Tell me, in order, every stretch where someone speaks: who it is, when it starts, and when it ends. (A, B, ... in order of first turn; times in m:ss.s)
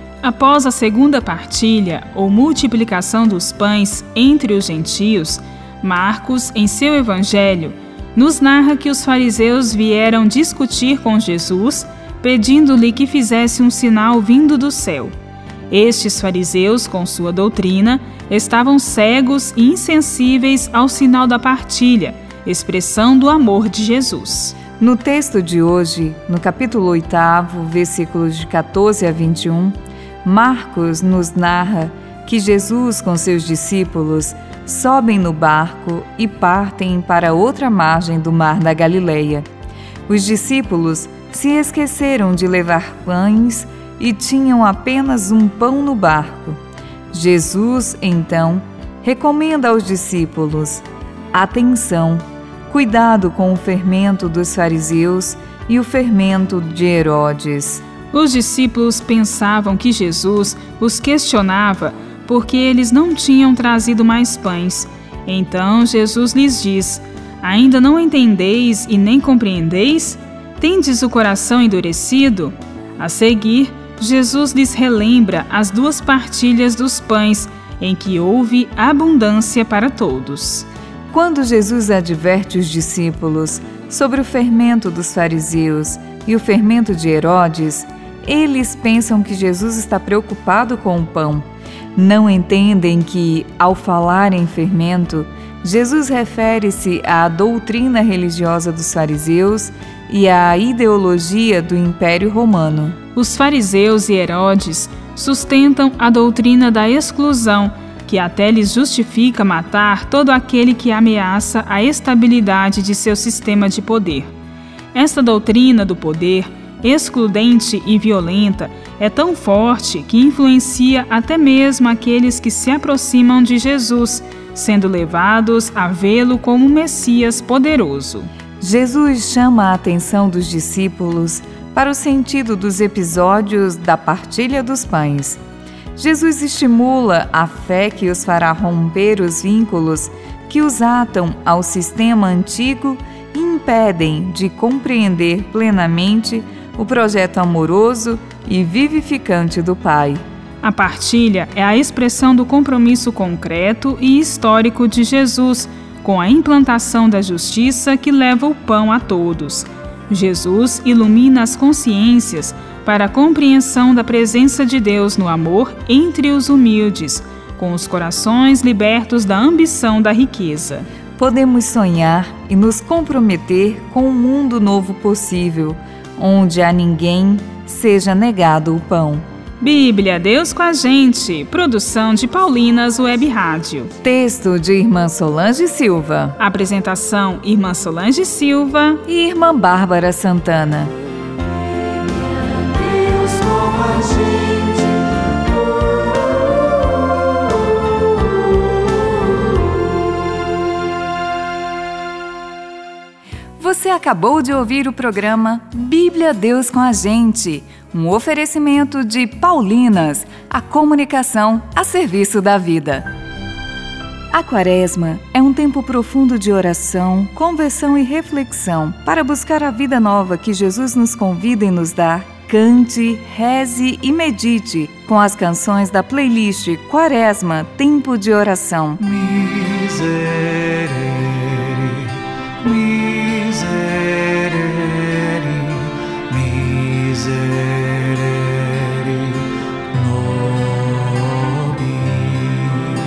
0:00.2-0:15.1 A
0:15.7-0:24.6 A
0:24.8-0:39.4 B
0:40.1-0:46.6 B
0:47.1-0:57.8 B
0:58.1-1:20.7 A
1:21.1-1:43.0 B
1:43.1-1:54.3 A
1:54.9-2:08.3 A
2:08.6-2:15.4 B
2:16.0-2:30.2 B
2:30.6-2:50.9 A
2:51.2-2:59.2 B
2:59.6-3:03.9 A
3:04.0-3:06.4 B
3:06.4-3:09.0 A
3:09.0-3:10.9 B
3:23.6-3:33.0 B
3:34.3-3:49.1 B
3:49.1-3:52.0 C
3:52.6-3:59.4 C
3:59.9-4:02.9 C